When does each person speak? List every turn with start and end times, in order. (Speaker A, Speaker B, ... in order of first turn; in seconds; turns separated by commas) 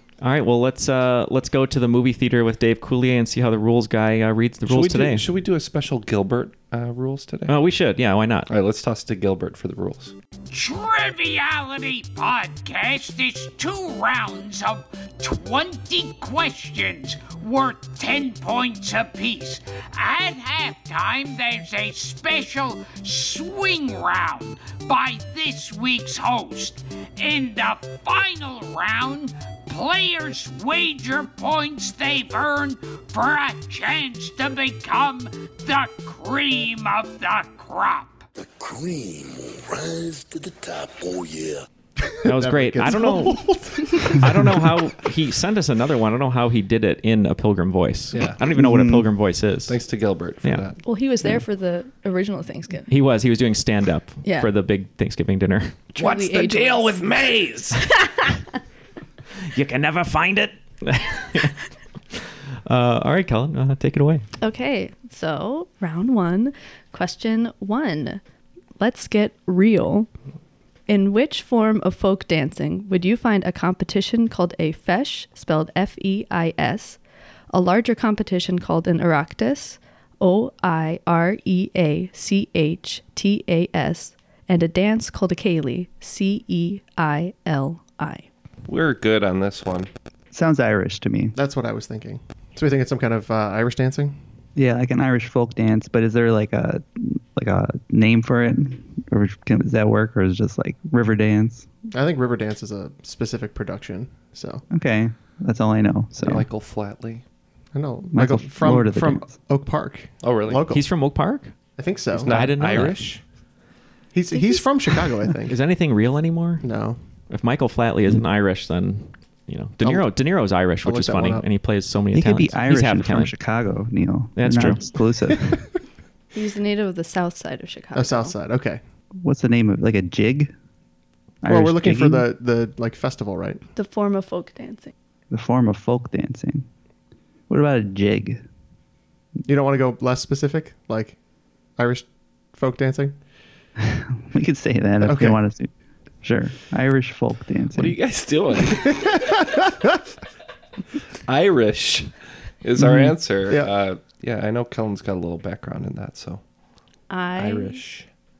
Speaker A: 0.2-5.2, Speaker B: 4.7-7.5, Speaker A: 7.5-8.5, Speaker B: 8.5-10.1, Speaker C: 10.5-38.2, Speaker D: 38.4-41.6, Speaker E: 42.1-44.7, Speaker A: 42.2-43.5, Speaker A: 44.0-49.8, Speaker F: 48.6-49.0, Speaker B: 49.7-50.8, Speaker G: 50.8-52.9, Speaker A: 52.9-55.9, Speaker G: 54.2-54.5, Speaker G: 55.9-57.1, Speaker C: 56.1-57.5, Speaker B: 56.7-57.3, Speaker G: 57.9-58.4, Speaker A: 59.5-61.5, Speaker A: 62.1-64.3, Speaker G: 64.4-68.2, Speaker G: 68.8-70.1, Speaker G: 70.9-77.0, Speaker G: 77.5-88.3, Speaker B: 88.7-89.9, Speaker F: 90.3-91.3, Speaker E: 91.3-94.2, Speaker F: 94.5-101.7, Speaker E: 101.9-104.6, Speaker F: 104.7-106.5, Speaker B: 106.2-107.2, Speaker E: 107.7-110.8, Speaker F: 108.1-109.3, Speaker B: 110.2-110.6, Speaker A: 110.7-111.5, Speaker E: 111.8-112.3, Speaker B: 112.1-113.2, Speaker A: 112.3-113.1, Speaker E: 114.1-115.5, Speaker A: 115.5-116.6, Speaker E: 116.6-117.0, Speaker A: 117.3-123.3, Speaker E: 120.8-121.5, Speaker F: 122.1-125.7, Speaker A: 124.3-124.8, Speaker G: 126.3-128.3, Speaker E: 127.9-128.8, Speaker F: 129.2-130.5, Speaker F: 131.4-132.3, Speaker E: 131.4-133.6, Speaker G: 133.7-134.9, Speaker F: 135.3-136.7, Speaker F: 137.5-138.4, Speaker E: 139.4-141.2, Speaker E: 141.8-143.1, Speaker F: 143.8-145.7, Speaker E: 145.0-145.4, Speaker F: 146.2-147.9, Speaker B: 147.7-149.2, Speaker B: 151.3-156.4, Speaker F: 152.8-153.1, Speaker G: 157.1-157.8, Speaker B: 157.4-158.1